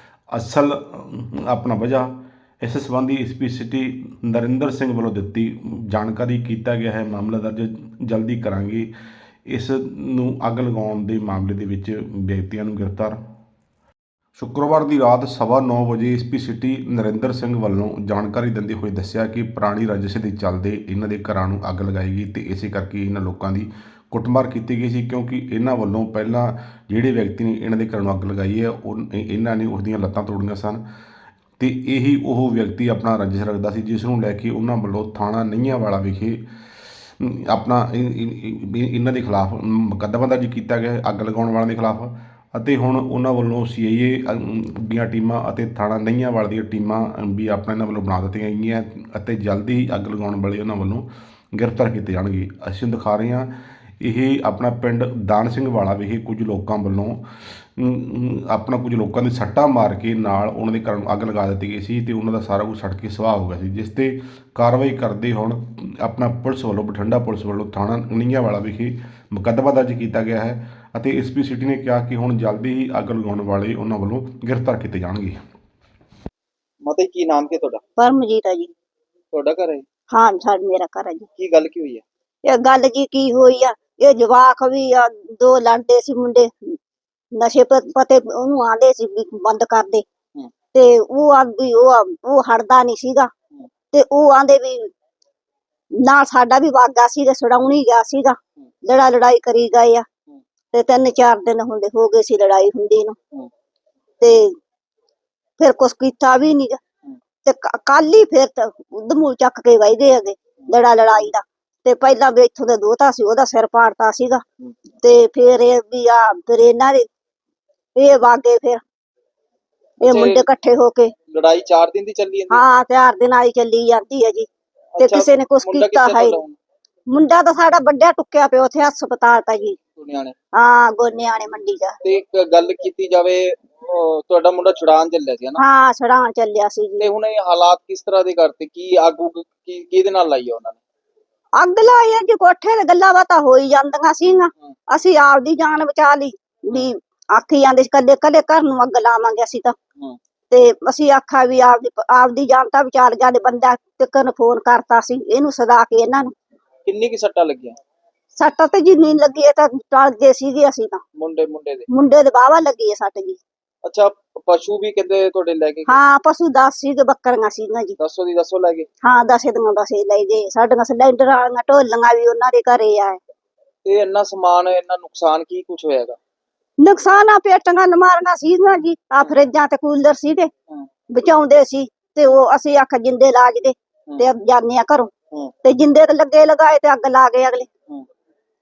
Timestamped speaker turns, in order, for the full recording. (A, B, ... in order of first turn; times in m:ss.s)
0:00.3-0:08.9 A
0:09.5-0:13.2 A
0:14.4-0:30.8 A
0:31.6-0:36.4 A
0:37.2-0:53.5 A
0:54.0-0:57.2 A
0:57.8-1:15.4 A
1:16.8-1:17.8 B
1:18.0-1:18.7 C
1:19.3-1:19.8 B
1:20.1-1:21.3 C
1:21.3-1:22.0 B
1:22.5-1:26.8 C
1:27.4-1:30.0 C
1:30.7-1:33.3 C
1:33.9-1:34.9 C
1:36.0-1:40.0 C
1:40.7-1:43.2 C
1:44.2-1:44.5 C
1:45.6-1:46.8 C
1:47.4-1:54.4 C
1:55.0-1:57.1 C
1:58.0-1:58.8 C
2:00.0-2:00.4 B
2:00.0-2:01.1 C
2:01.3-2:02.6 B
2:02.5-2:04.5 C
2:05.0-2:06.6 B
2:05.0-2:06.4 C
2:07.1-2:09.8 C
2:10.0-2:10.3 B
2:10.6-2:12.0 C
2:12.0-2:15.6 B
2:15.6-2:17.1 C
2:17.0-2:20.8 B
2:21.6-2:29.7 C
2:30.5-2:36.3 C
2:36.8-2:37.8 B
2:38.4-2:41.0 C
2:41.2-2:41.8 B
2:41.9-2:43.4 C
2:43.8-2:46.0 B
2:45.9-2:48.0 C
2:48.0-2:48.9 B
2:49.0-2:53.2 C
2:53.8-2:56.2 B
2:56.8-3:00.5 C
3:01.1-3:05.1 C
3:05.6-3:07.7 C